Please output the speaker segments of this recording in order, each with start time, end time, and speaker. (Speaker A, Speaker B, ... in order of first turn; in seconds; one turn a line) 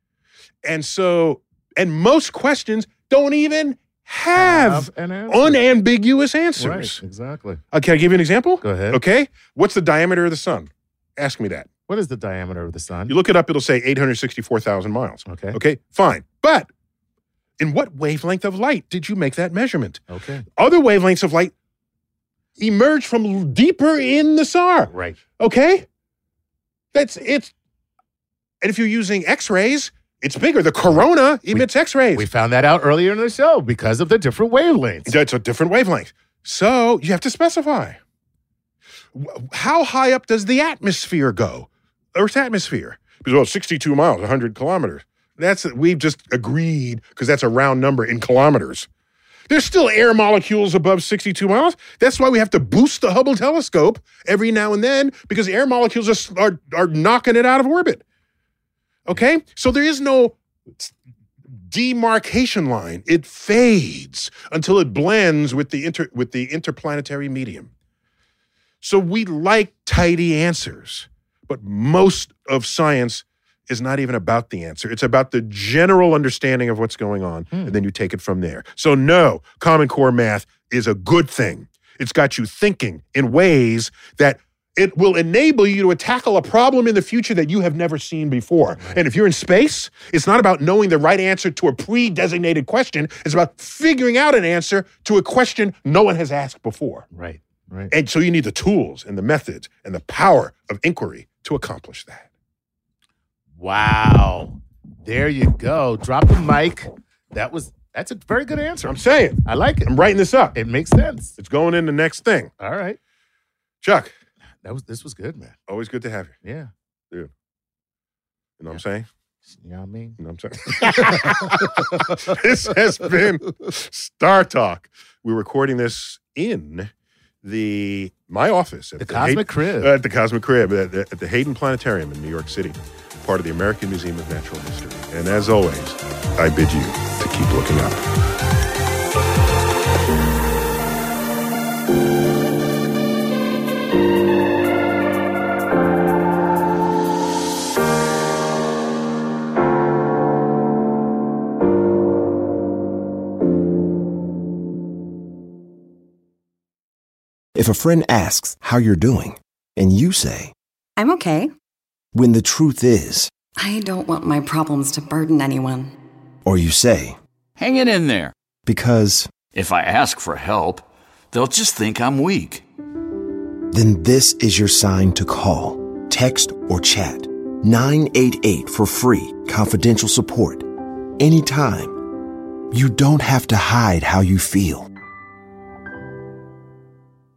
Speaker A: 0.6-7.0
Speaker B: 4.3-5.6
Speaker B: 6.6-7.6
Speaker A: 7.7-11.7
Speaker B: 8.6-9.0
Speaker B: 11.9-13.2
Speaker A: 13.1-16.7
Speaker B: 15.3-15.6
Speaker A: 17.6-20.0
Speaker B: 20.1-20.4
Speaker A: 20.6-21.5
Speaker A: 22.6-25.9
Speaker B: 24.9-25.2
Speaker A: 26.9-27.5
Speaker A: 28.6-32.2
Speaker B: 31.5-35.1
Speaker A: 35.0-38.0
Speaker A: 39.1-48.9
Speaker A: 49.5-58.0
Speaker A: 59.1-60.9
Speaker A: 61.5-67.7
Speaker A: 68.8-97.1
Speaker B: 77.5-77.8
Speaker B: 97.1-97.9
Speaker A: 97.9-102.3
Speaker B: 103.6-109.9
Speaker A: 108.8-110.6
Speaker B: 110.5-111.4
Speaker A: 111.4-112.5
Speaker B: 112.6-113.0
Speaker A: 113.8-114.1
Speaker B: 114.6-115.5
Speaker A: 115.7-116.3
Speaker B: 116.4-116.7
Speaker A: 118.6-119.1
Speaker B: 119.6-122.4
Speaker A: 120.2-126.9
Speaker A: 127.4-138.0
Speaker B: 129.0-129.9
Speaker C: 157.6-160.5
Speaker D: 161.0-161.5
Speaker C: 162.1-163.3
Speaker D: 163.6-165.9
Speaker C: 166.4-167.2
Speaker E: 167.6-168.3
Speaker C: 168.7-169.4
Speaker E: 169.4-172.6
Speaker C: 173.7-182.0
Speaker C: 182.7-184.9